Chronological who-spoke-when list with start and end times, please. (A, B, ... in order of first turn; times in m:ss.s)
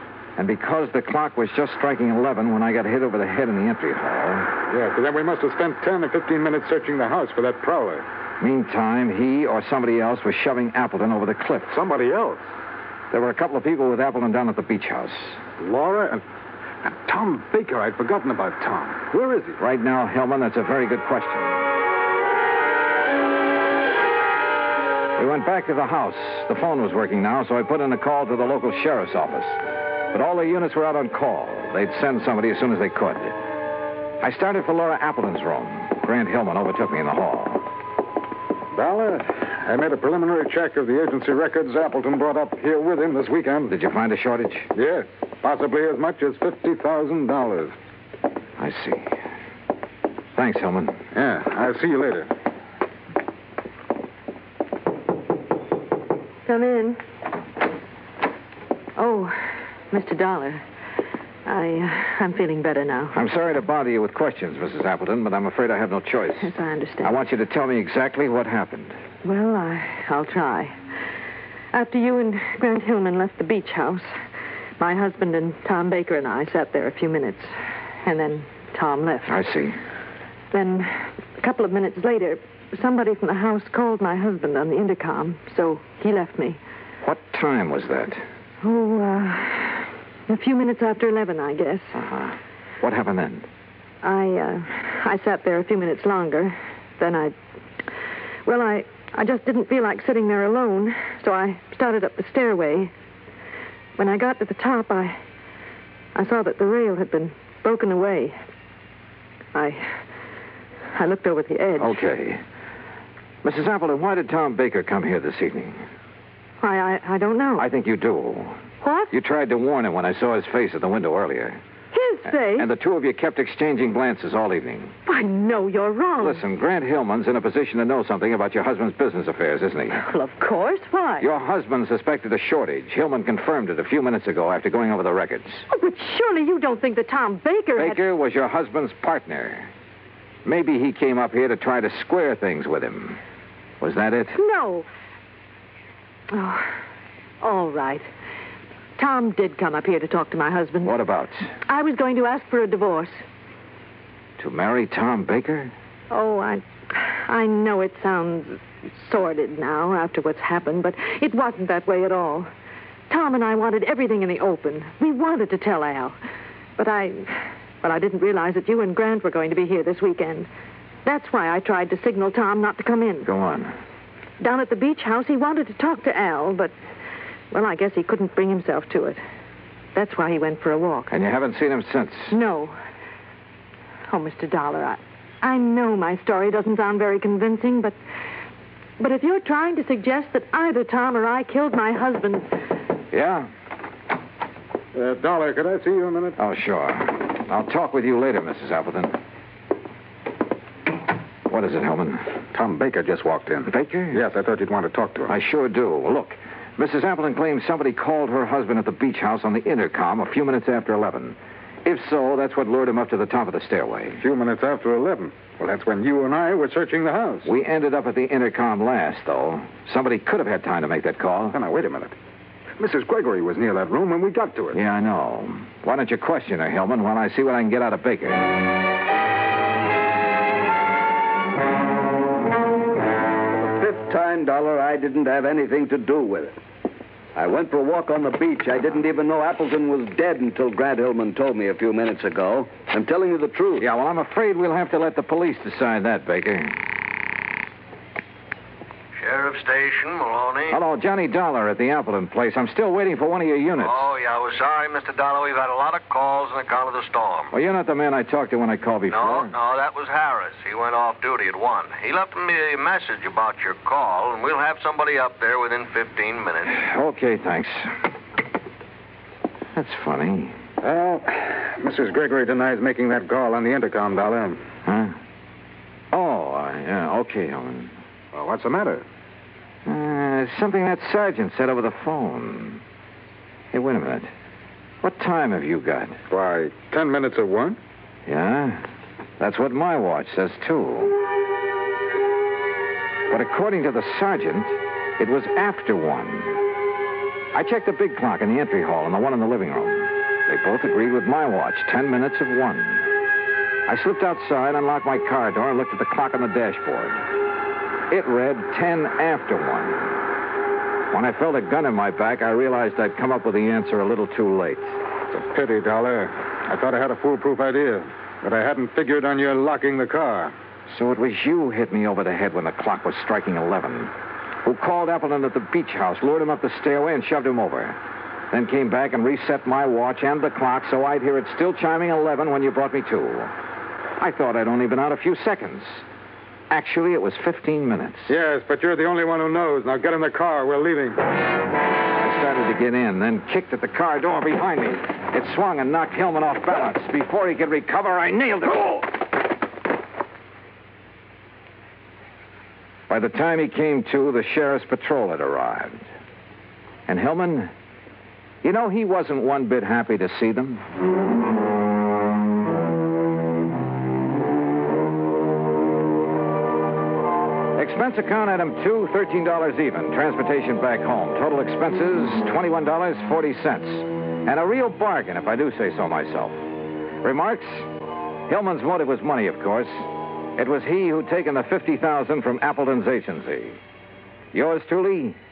0:00.4-0:04.5 A
0:04.7-0:08.0 B
0:08.4-0:11.8 A
0:11.7-0:12.4 B
0:13.1-0:15.4 A
0:15.6-0:16.2 B
0:16.8-0:19.6 B
0:19.6-0:21.6 A
0:25.2-0:33.4 A
0:34.2-0:37.6 A
0:38.7-0:43.7 B
0:43.7-0:44.7 A
0:44.7-0:47.7 B
0:48.6-0:49.1 A
0:50.3-0:51.0 A
0:51.1-0:52.3 B
0:56.4-0:57.0 C
0:59.0-1:00.6 C
1:01.4-1:03.2 C
1:03.1-1:06.5 A
1:06.4-1:07.1 C
1:07.0-1:09.0 A
1:09.2-1:10.8 C
1:11.7-1:14.1 C
1:14.8-1:19.3 C
1:19.2-1:19.8 A
1:20.5-1:26.6 C
1:27.0-1:28.2 A
1:28.6-1:31.9 C
1:31.9-1:33.5 A
1:34.0-1:37.3 C
1:38.4-1:42.9 C
1:44.0-1:45.2 C
1:46.1-1:48.4 C
1:49.5-1:49.9 C
1:50.9-1:52.0 C
1:51.8-1:52.4 A
1:53.4-1:55.8 A
1:56.6-1:57.7 C
1:57.6-1:58.6 A
1:58.8-1:59.1 C
1:59.1-2:01.6 A
2:01.9-2:02.7 C
2:02.3-2:04.9 A
2:05.0-2:06.4 C
2:06.2-2:10.0 A
2:09.9-2:11.3 C
2:11.2-2:15.6 A
2:15.7-2:18.0 C
2:17.8-2:19.7 A
2:20.4-2:23.2 A
2:23.8-2:24.4 A
2:24.3-2:24.8 C
2:26.3-2:26.8 C
2:27.4-2:28.0 C
2:29.0-2:30.9 C
2:30.8-2:31.5 A
2:31.6-2:33.2 C
2:34.4-2:35.7 A
2:36.1-2:42.5 C
2:43.1-2:46.2 C
2:46.8-2:50.5 C
2:51.0-2:53.3 C
2:53.2-2:53.7 A
2:54.4-2:56.7 C
2:57.5-2:59.2 C
2:59.9-3:01.1 C
3:01.1-3:02.4 A
3:02.3-3:02.8 C
3:04.1-3:08.0 C
3:09.0-3:12.4 C
3:13.1-3:13.5 A
3:14.9-3:16.4 B
3:16.4-3:19.2 A
3:21.5-3:22.3 A
3:22.5-3:25.3 B
3:23.6-3:24.2 A
3:25.3-3:34.2 A
3:34.2-3:37.5 B
3:37.4-3:41.6 A
3:41.5-3:42.1 B
3:42.8-3:44.8 B
3:44.7-3:48.6 A
3:53.5-3:56.6 D
3:57.3-4:03.8 D
4:03.8-4:06.8 A
4:09.2-4:10.8 E
4:10.7-4:14.1 A
4:13.8-4:17.5 E
4:17.5-4:19.5 A
4:19.1-4:26.8 E
4:26.7-4:27.9 A
4:29.7-4:30.5 A
4:30.8-4:34.6 B
4:34.8-4:35.2 A
4:36.1-4:37.9 A
4:38.3-4:39.0 B
4:39.8-4:42.8 A
4:43.7-4:44.3 A
4:45.0-4:46.2 A
4:46.3-4:47.8 B
4:48.2-4:48.8 A
4:49.4-4:51.2 A
4:53.3-4:56.6 A
4:57.5-5:03.1 A
5:03.8-5:07.2 A
5:08.1-5:10.1 A
5:11.1-5:15.0 A
5:15.3-5:20.5 B
5:20.9-5:24.1 A
5:24.6-5:28.0 A
5:28.5-5:33.5 A
5:34.2-5:36.0 A
5:36.7-5:38.3 A
5:38.3-5:41.2 B
5:42.1-5:49.1 A
5:53.1-5:56.1 A
5:57.1-5:57.7 A
5:58.6-6:00.8 A
6:07.8-6:16.6 A
6:17.2-6:17.9 A
6:18.5-6:23.8 A
6:24.5-6:25.4 A